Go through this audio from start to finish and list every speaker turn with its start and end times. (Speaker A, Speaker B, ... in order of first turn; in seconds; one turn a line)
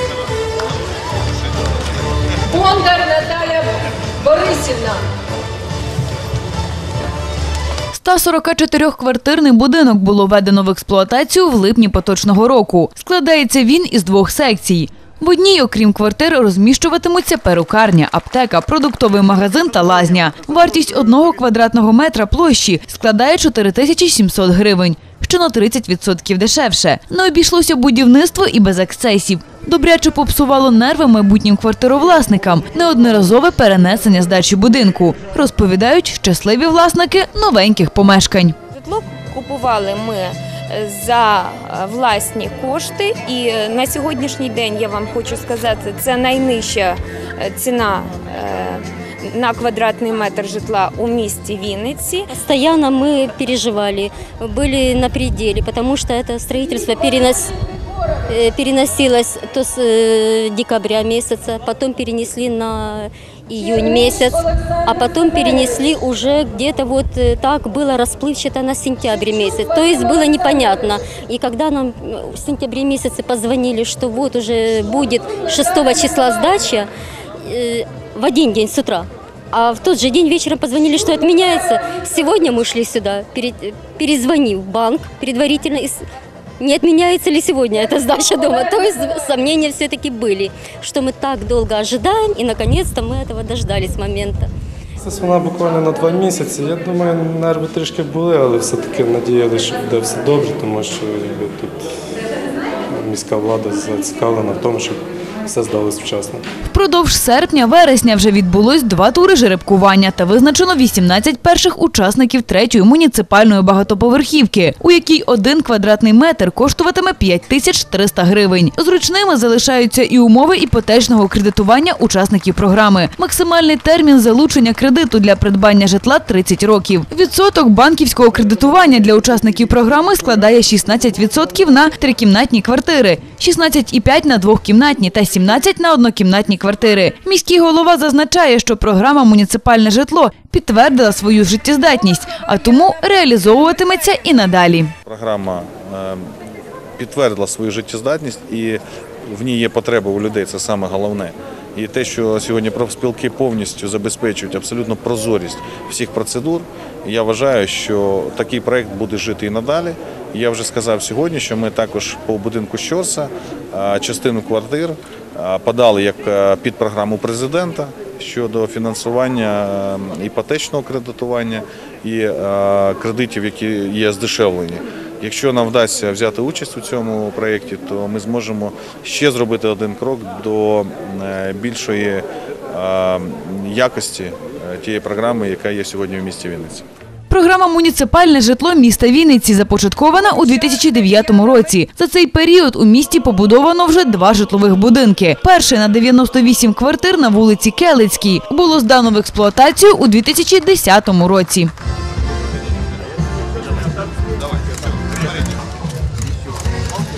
Speaker A: 2.6-3.0
Speaker A: 4.5-4.8
Speaker B: 7.9-38.5
Speaker A: 38.7-52.3
Speaker C: 52.3-57.5
Speaker C: 58.3-76.9
Speaker C: 77.4-86.0
Speaker C: 86.6-94.5
Speaker D: 95.0-101.8
Speaker D: 102.9-106.4
Speaker B: 106.7-144.9
Speaker E: 145.0-146.3
Speaker E: 147.0-186.8
Speaker B: 187.3-201.7